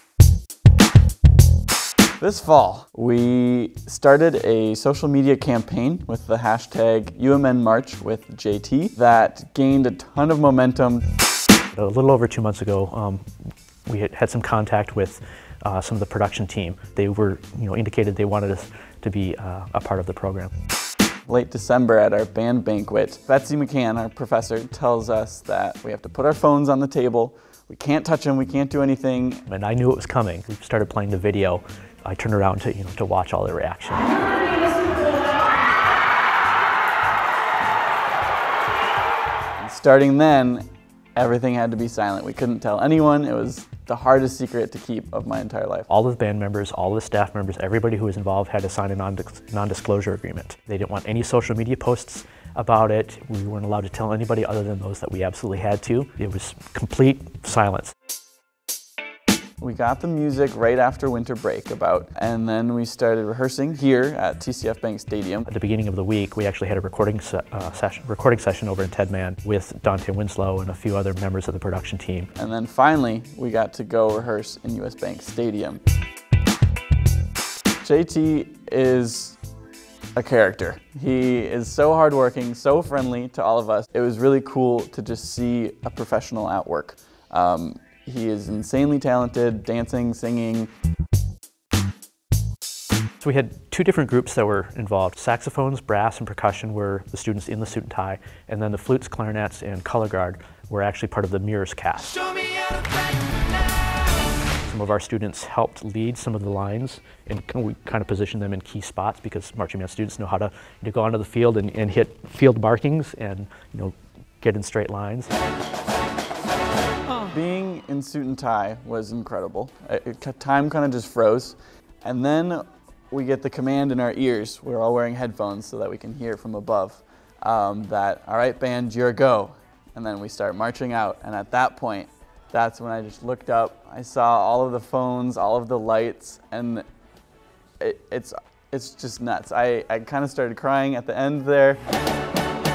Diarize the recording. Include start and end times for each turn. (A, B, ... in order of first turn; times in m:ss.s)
0:02.2-0:11.0 A
0:11.7-0:13.2 B
0:13.9-0:20.5 B
0:21.3-0:29.4 A
0:29.5-0:34.4 B
0:39.6-0:45.9 A
0:45.9-0:57.9 B
0:59.6-1:05.5 A
1:05.5-1:12.3 B
1:12.3-1:15.8 A
1:17.8-1:19.4 A
1:20.2-1:30.7 A
1:33.2-1:42.5 B
1:44.6-1:55.3 B
1:57.3-2:16.8 A
2:17.8-2:21.8 A